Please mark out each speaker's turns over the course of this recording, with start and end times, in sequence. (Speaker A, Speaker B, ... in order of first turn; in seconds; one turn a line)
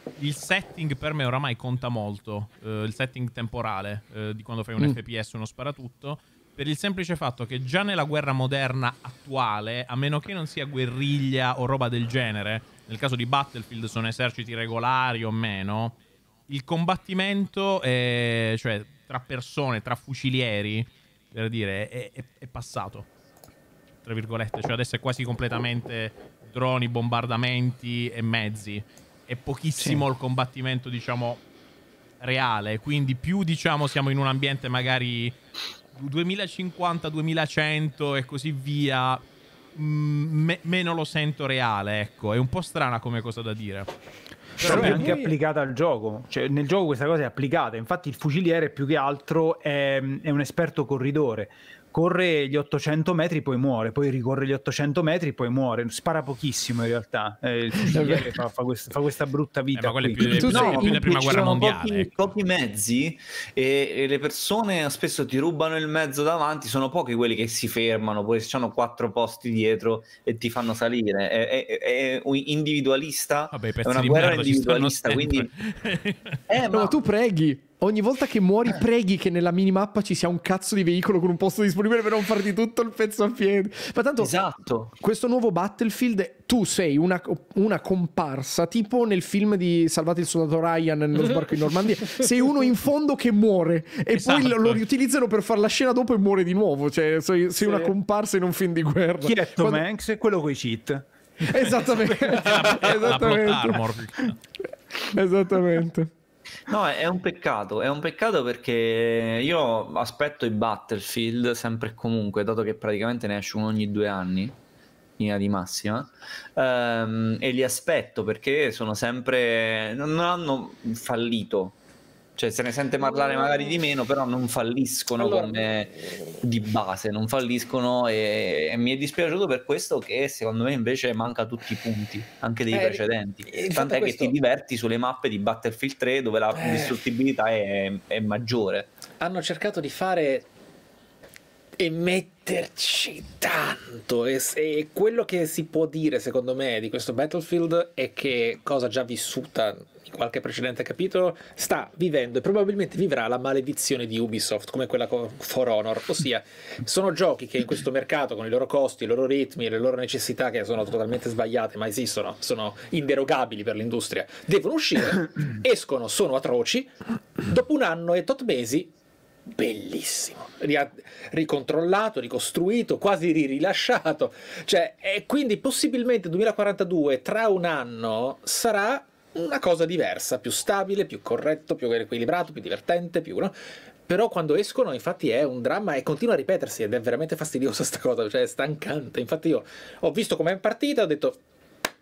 Speaker A: 0.2-15.9
Speaker A: 16.5-23.1
Speaker A: 24.0-31.4
Speaker B: 29.8-30.0
Speaker A: 32.2-35.3
Speaker A: 35.9-39.2
Speaker A: 39.8-43.9
Speaker B: 44.6-60.9
Speaker A: 44.6-45.1
Speaker C: 44.6-45.3
Speaker C: 57.8-58.3
Speaker A: 59.8-62.1
Speaker C: 60.2-61.3
Speaker D: 60.3-75.5
Speaker A: 73.5-76.4
Speaker D: 76.5-77.0
Speaker C: 76.7-84.4
Speaker D: 84.2-84.9
Speaker C: 85.0-99.8
Speaker A: 94.1-94.8
Speaker E: 97.6-97.9
Speaker B: 99.2-101.8
Speaker C: 101.5-103.8
Speaker A: 102.3-104.4
Speaker C: 105.1-106.1
Speaker D: 106.7-114.5
Speaker D: 115.2-121.8
Speaker D: 122.3-138.9
Speaker E: 123.1-123.8
Speaker E: 125.2-125.6
Speaker E: 132.7-134.3
Speaker E: 136.5-137.0
Speaker E: 139.2-140.5
Speaker E: 141.8-168.9
Speaker E: 169.5-183.5
Speaker E: 184.1-191.4